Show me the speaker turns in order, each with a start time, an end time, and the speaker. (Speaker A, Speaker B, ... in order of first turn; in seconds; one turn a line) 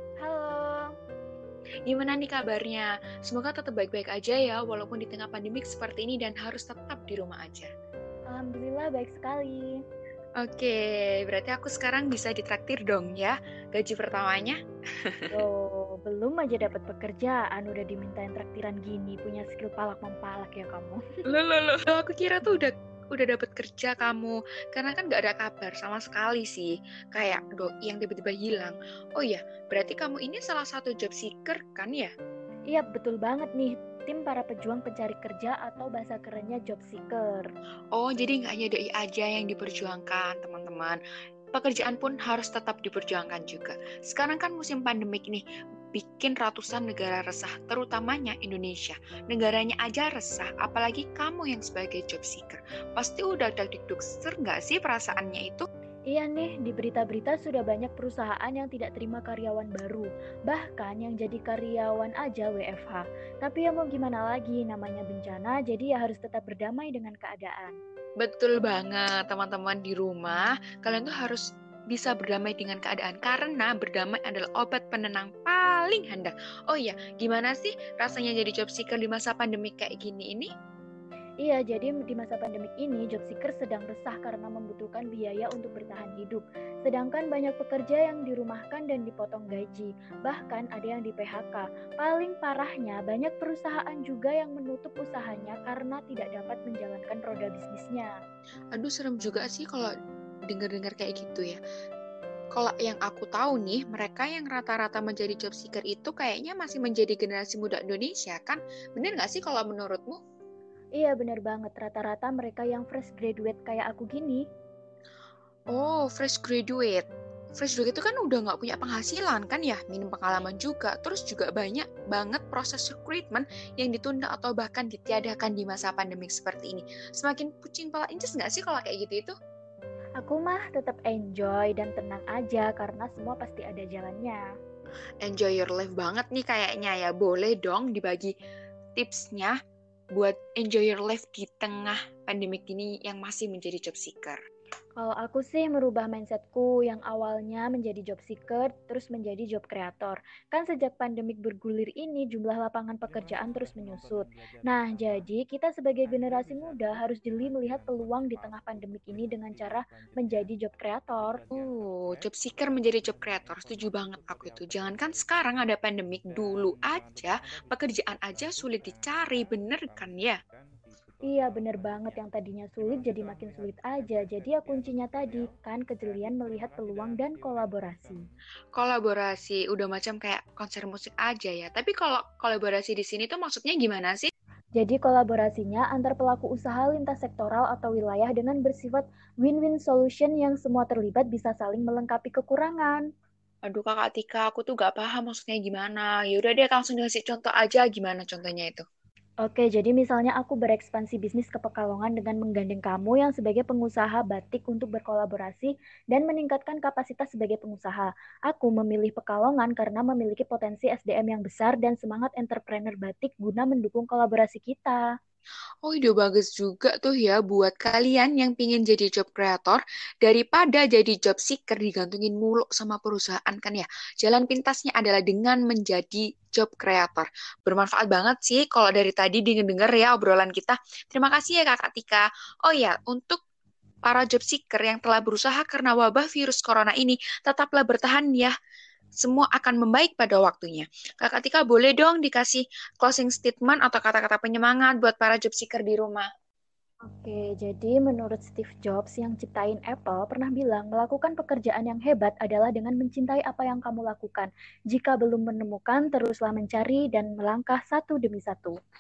Speaker A: 0.2-0.9
Speaker B: 1.9-7.7
Speaker A: 8.3-9.8
Speaker B: 10.4-15.4
Speaker A: 15.3-21.0
Speaker B: 21.3-32.1
Speaker A: 32.7-37.5
Speaker B: 38.0-41.0
Speaker B: 41.5-55.7
Speaker A: 56.1-67.8
Speaker B: 68.2-80.5
Speaker A: 81.4-98.1
Speaker B: 98.8-99.9
Speaker B: 100.5-101.6
Speaker B: 102.5-110.2
Speaker A: 111.0-114.5
Speaker B: 115.7-117.0
Speaker B: 117.6-129.3
Speaker A: 130.2-134.5
Speaker B: 135.2-138.3
Speaker B: 138.9-139.6
Speaker B: 140.1-144.4
Speaker A: 145.0-161.4
Speaker B: 161.5-170.4
Speaker A: 171.3-178.2
Speaker B: 178.8-184.3
Speaker A: 184.8-193.0
Speaker B: 193.7-198.8
Speaker A: 199.4-215.0
Speaker B: 215.8-233.4
Speaker B: 234.0-238.5
Speaker B: 239.2-246.3
Speaker A: 247.1-258.8